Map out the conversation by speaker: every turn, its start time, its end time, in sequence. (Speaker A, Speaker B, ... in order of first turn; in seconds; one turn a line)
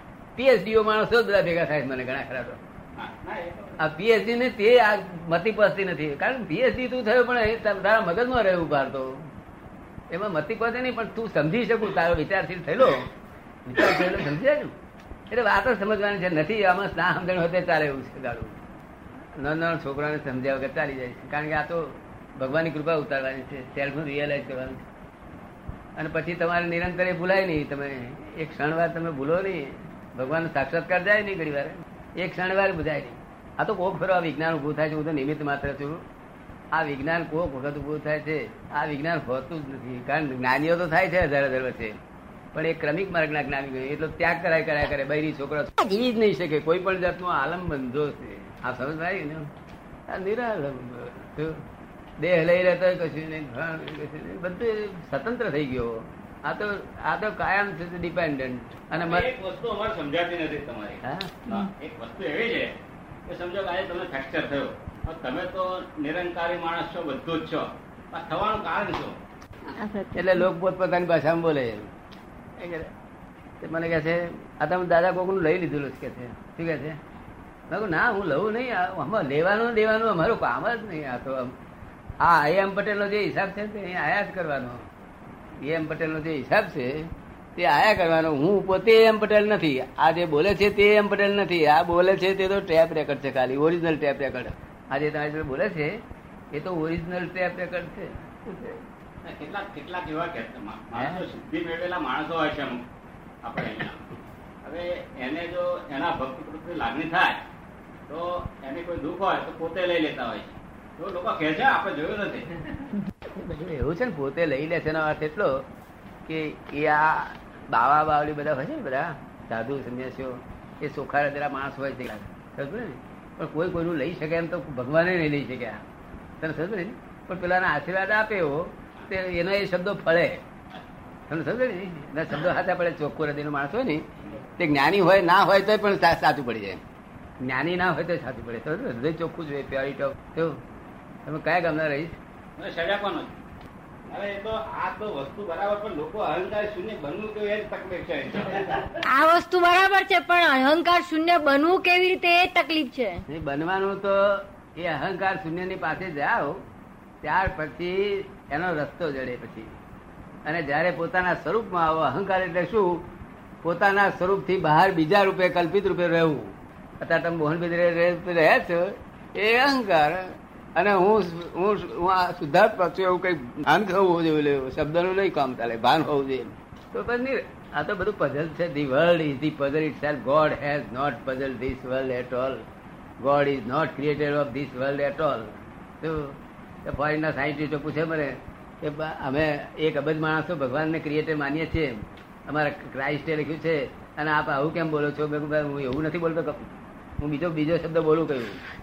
Speaker A: 0.3-2.6
Speaker B: 3.0-3.8
Speaker A: 3.8-9.2
Speaker A: 10.1-13.1
Speaker A: 13.7-14.7
Speaker A: 15.3-18.6
Speaker A: 19.4-24.8
Speaker A: 26.0-36.0
Speaker A: 36.7-42.0
Speaker A: 42.5-49.5
Speaker A: 50.1-51.6
Speaker A: 52.2-59.3
Speaker B: 59.0-62.7
Speaker A: 61.0-61.5
Speaker B: 63.3-69.1
Speaker C: 69.9-70.2
Speaker A: 70.1-71.9
Speaker A: 72.6-72.9
Speaker A: 73.6-77.0
Speaker A: 77.7-81.5
Speaker A: 82.2-84.8
Speaker A: 85.6-95.9
Speaker A: 96.5-98.8
Speaker B: 99.2-102.8
Speaker A: 100.9-101.2
Speaker B: 103.4-104.0
Speaker B: 104.6-107.4
Speaker B: 108.1-112.5
Speaker A: 113.3-115.6
Speaker A: 116.2-125.8
Speaker A: 126.4-130.4
Speaker A: 131.3-134.0
Speaker A: 134.6-136.8
Speaker A: 137.4-140.6
Speaker A: 141.2-142.2
Speaker B: 142.6-143.3
Speaker B: 144.1-149.0
Speaker C: 149.1-153.2
Speaker A: 153.3-156.6
Speaker A: 157.2-159.7
Speaker A: 160.4-163.0
Speaker A: 163.6-182.6
Speaker A: 183.2-198.6